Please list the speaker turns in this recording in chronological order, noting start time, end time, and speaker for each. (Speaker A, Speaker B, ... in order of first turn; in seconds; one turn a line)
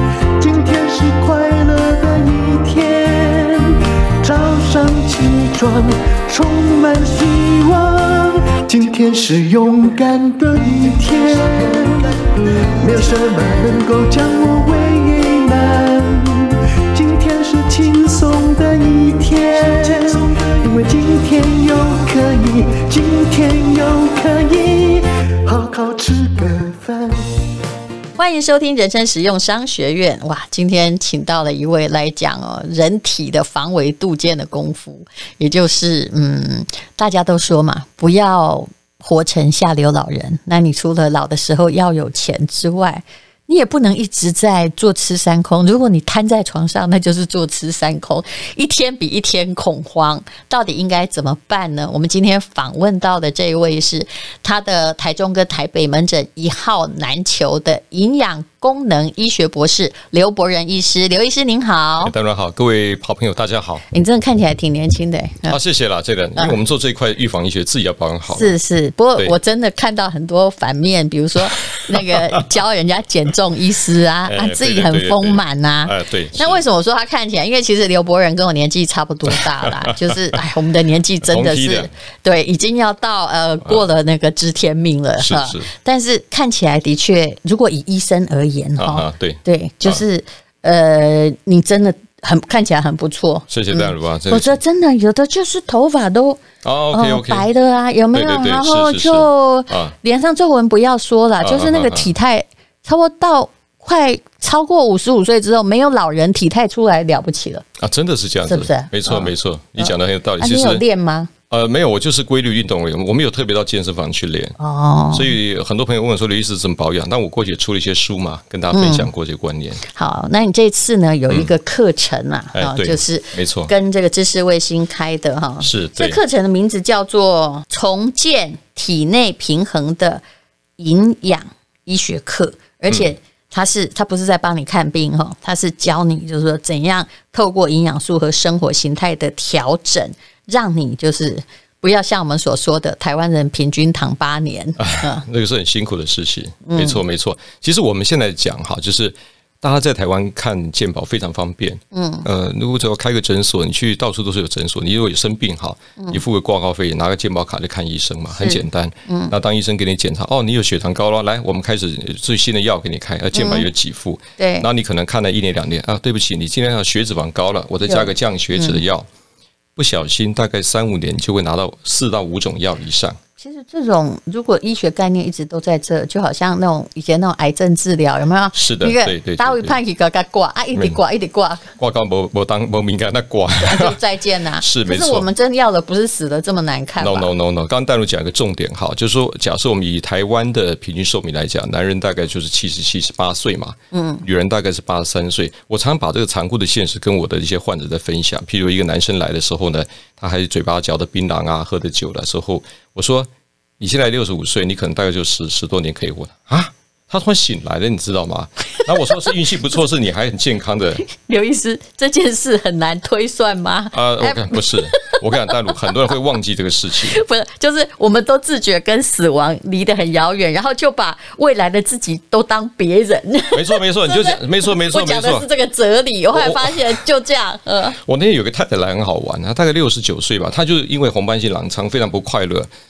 Speaker A: 0.4-27.2
Speaker B: 28.2-62.1
Speaker C: 62.0-63.8
Speaker B: 63.9-65.6
Speaker C: 65.5-68.6
Speaker B: 68.3-107.6
Speaker C: 71.5-72.4
Speaker C: 74.2-76.6
Speaker C: 79.3-80.4
Speaker C: 81.2-81.9
Speaker C: 85.2-85.7
Speaker C: 88.8-90.0
Speaker C: 93.5-94.6
Speaker C: 96.6-97.5
Speaker C: 98.1-99.9
Speaker C: 101.4-102.1
Speaker C: 107.8-110.8
Speaker B: 108.5-111.3
Speaker C: 111.5-114.6
Speaker B: 114.6-115.3
Speaker C: 115.1-119.8
Speaker B: 118.7-119.1
Speaker B: 119.8-130.2
Speaker C: 122.5-123.7
Speaker C: 125.6-126.2
Speaker B: 130.8-145.2
Speaker C: 144.8-169.1
Speaker B: 146.6-147.0
Speaker B: 151.9-152.3
Speaker B: 158.4-159.3
Speaker B: 163.3-163.7
Speaker B: 164.4-164.7
Speaker B: 167.8-168.8
Speaker C: 169.8-173.2
Speaker B: 173.4-181.7
Speaker C: 178.5-179.8
Speaker C: 181.8-184.0
Speaker B: 183.6-187.3
Speaker C: 184.6-185.3
Speaker C: 187.0-211.0
Speaker B: 193.9-194.2
Speaker B: 211.1-215.8
Speaker C: 213.9-217.2
Speaker B: 217.0-228.0
Speaker C: 223.5-225.5
Speaker C: 226.3-227.0
Speaker C: 227.9-232.7